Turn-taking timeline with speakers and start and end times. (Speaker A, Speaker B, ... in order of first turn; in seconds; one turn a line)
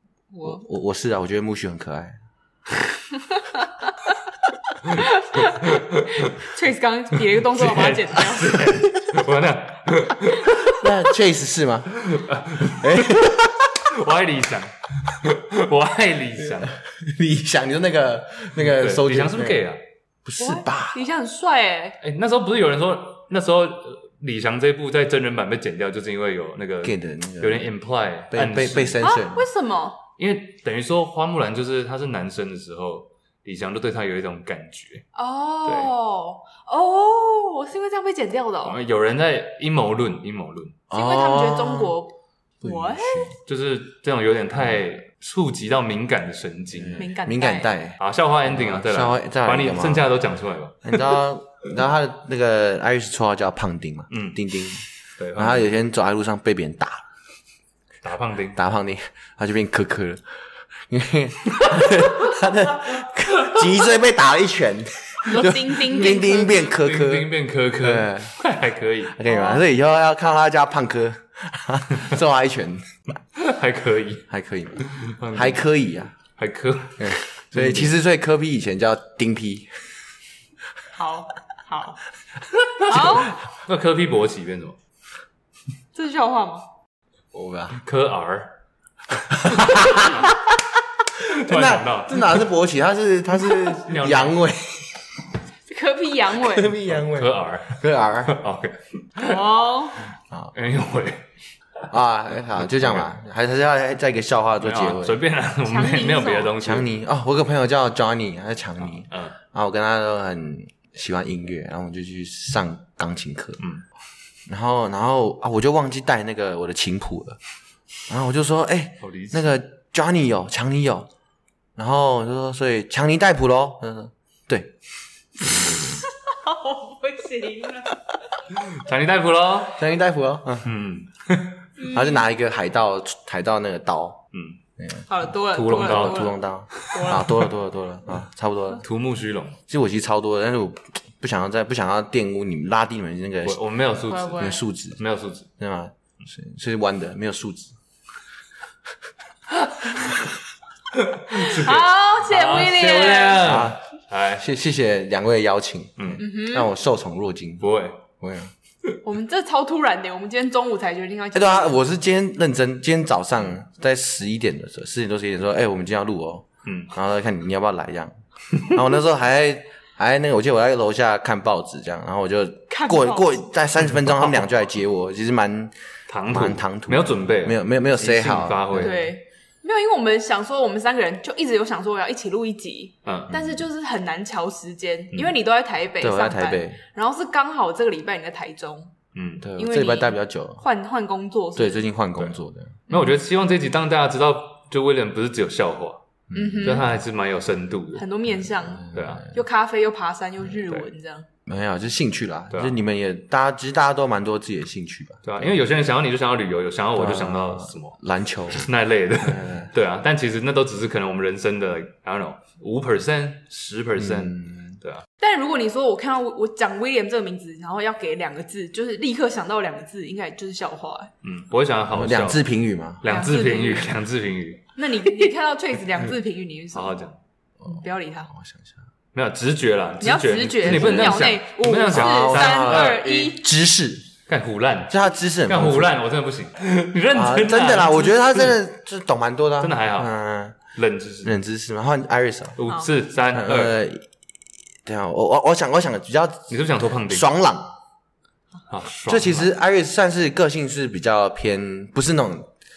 Speaker A: 0.3-0.6
Speaker B: 0.4-2.2
Speaker A: 5.0-8.8
Speaker C: 5.6-6.3
Speaker C: 7.4-10.7
Speaker A: 10.4-10.8
Speaker B: 10.7-12.0
Speaker C: 11.9-13.3
Speaker B: 12.6-13.8
Speaker C: 13.8-16.8
Speaker B: 16.5-19.6
Speaker C: 18.6-19.8
Speaker B: 20.2-21.0
Speaker A: 20.4-22.0
Speaker C: 22.0-29.1
Speaker B: 26.8-27.7
Speaker B: 28.3-29.4
Speaker A: 29.0-30.0
Speaker C: 30.2-35.1
Speaker A: 35.1-38.8
Speaker C: 35.6-35.9
Speaker C: 38.6-40.8
Speaker B: 40.9-41.9
Speaker A: 40.9-43.4
Speaker B: 42.6-43.4
Speaker C: 43.5-47.1
Speaker B: 46.7-50.1
Speaker A: 47.0-47.7
Speaker C: 48.0-51.1
Speaker B: 50.8-54.8
Speaker C: 54.1-54.4
Speaker C: 55.2-55.7
Speaker B: 55.4-57.0
Speaker C: 58.0-58.6
Speaker B: 58.5-68.4
Speaker A: 65.2-66.7
Speaker C: 66.6-69.2
Speaker B: 69.1-72.9
Speaker A: 69.2-69.6
Speaker C: 73.3-74.3
Speaker B: 74.3-76.1
Speaker C: 74.8-75.7
Speaker C: 76.4-77.9
Speaker B: 77.0-79.7
Speaker A: 80.9-82.0
Speaker A: 82.8-83.3
Speaker C: 82.9-84.8
Speaker A: 85.9-86.7
Speaker B: 87.3-87.8
Speaker C: 87.7-88.5
Speaker B: 89.3-90.6
Speaker C: 89.4-90.3
Speaker C: 91.2-92.4
Speaker B: 91.2-95.2
Speaker C: 93.7-94.4
Speaker A: 95.7-96.8
Speaker B: 96.3-98.4
Speaker C: 96.9-99.4
Speaker A: 99.2-100.1
Speaker C: 100.5-101.3
Speaker B: 101.9-105.2
Speaker C: 102.7-103.0
Speaker C: 104.6-106.9
Speaker A: 105.7-106.6
Speaker B: 106.6-113.6
Speaker C: 108.8-109.4
Speaker C: 113.6-113.8
Speaker B: 114.5-117.4
Speaker B: 118.1-121.1
Speaker C: 119.0-119.5
Speaker B: 121.8-124.7
Speaker B: 125.5-125.8
Speaker A: 126.0-128.0
Speaker C: 128.5-129.8
Speaker B: 129.8-130.7
Speaker C: 130.6-131.7
Speaker A: 131.8-132.2
Speaker B: 131.8-134.2
Speaker C: 134.3-134.6
Speaker B: 134.8-135.1
Speaker A: 135.1-137.5
Speaker C: 135.5-137.1
Speaker B: 135.7-138.8
Speaker C: 138.8-139.6
Speaker B: 139.7-143.6
Speaker C: 143.4-145.5
Speaker A: 144.1-144.6
Speaker B: 144.4-145.0
Speaker B: 145.6-147.8
Speaker C: 150.9-154.5
Speaker A: 151.3-153.5
Speaker B: 153.4-153.8
Speaker B: 154.4-158.5
Speaker A: 156.2-156.7
Speaker C: 157.6-158.0
Speaker A: 159.0-161.8
Speaker B: 161.3-175.8
Speaker C: 166.7-166.9
Speaker A: 172.7-173.4
Speaker C: 176.1-179.1
Speaker B: 176.3-179.0
Speaker A: 178.7-188.9
Speaker C: 183.1-183.4
Speaker B: 186.0-186.8
Speaker C: 189.1-189.5
Speaker B: 189.4-190.6
Speaker A: 189.6-191.9
Speaker B: 191.6-192.8
Speaker C: 192.9-196.0
Speaker B: 196.3-196.8
Speaker A: 196.3-196.9
Speaker C: 196.6-198.1
Speaker A: 197.9-201.3
Speaker B: 198.7-199.3
Speaker C: 198.9-199.3
Speaker B: 201.5-205.5
Speaker C: 202.5-202.8
Speaker C: 205.2-208.0
Speaker B: 207.0-208.6
Speaker C: 208.5-215.1
Speaker B: 209.2-209.7
Speaker B: 214.0-214.8
Speaker A: 215.2-221.1
Speaker C: 221.2-222.4
Speaker B: 221.9-223.0
Speaker C: 223.0-224.6
Speaker A: 223.1-223.9
Speaker A: 224.8-226.9
Speaker C: 226.7-227.2
Speaker A: 227.7-228.3
Speaker B: 228.3-228.7
Speaker C: 229.1-233.1
Speaker A: 230.0-233.5
Speaker B: 230.7-231.3
Speaker B: 231.9-234.1
Speaker C: 234.3-238.6
Speaker B: 234.9-236.0
Speaker B: 237.1-240.6
Speaker C: 239.6-240.1
Speaker C: 240.7-241.4
Speaker B: 241.2-242.6
Speaker C: 242.6-243.8
Speaker B: 243.3-244.1
Speaker B: 244.8-247.7
Speaker C: 246.5-247.3
Speaker C: 248.7-249.5
Speaker B: 249.1-252.5